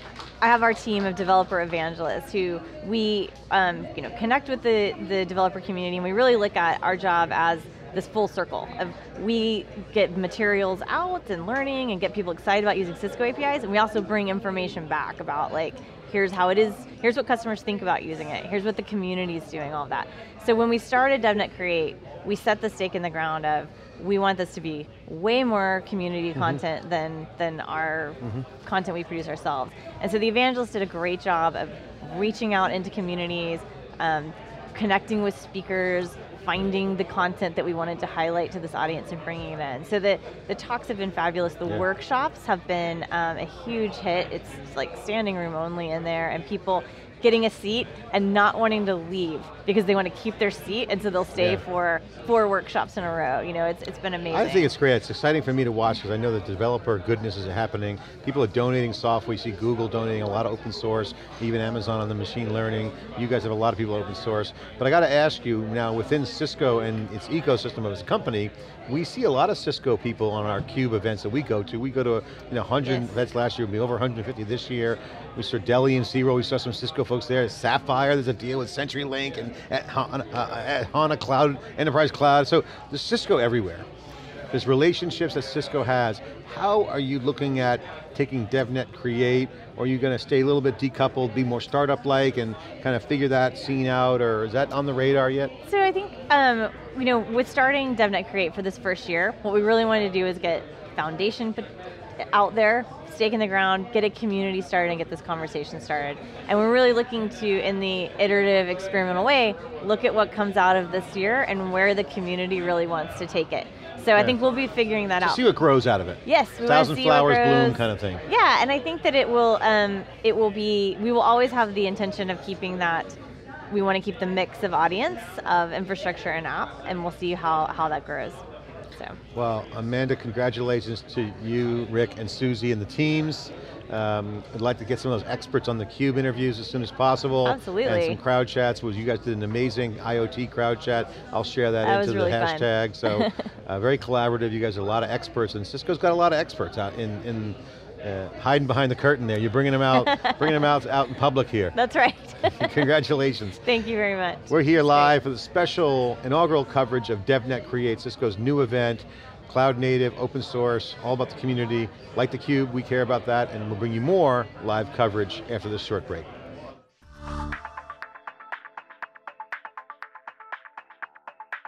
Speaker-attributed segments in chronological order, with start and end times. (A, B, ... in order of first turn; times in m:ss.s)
0:00.4-0:54.7 A
0:26.3-0:26.6 B
0:51.3-0:51.6 B
0:54.3-1:23.8 B
1:12.8-1:13.1 A
1:24.5-1:35.5 B
1:35.6-1:41.7 A
1:42.3-1:55.5 A
1:55.2-1:58.2 B
1:56.2-2:03.2 A
2:03.7-2:08.4 A
2:09.3-2:31.7 B
2:17.4-2:18.2 A
2:21.8-2:23.4 A
2:29.9-2:30.6 A
2:31.7-2:32.8 A
2:32.4-2:33.6 B
2:33.6-2:35.1 A
2:34.5-2:46.3 B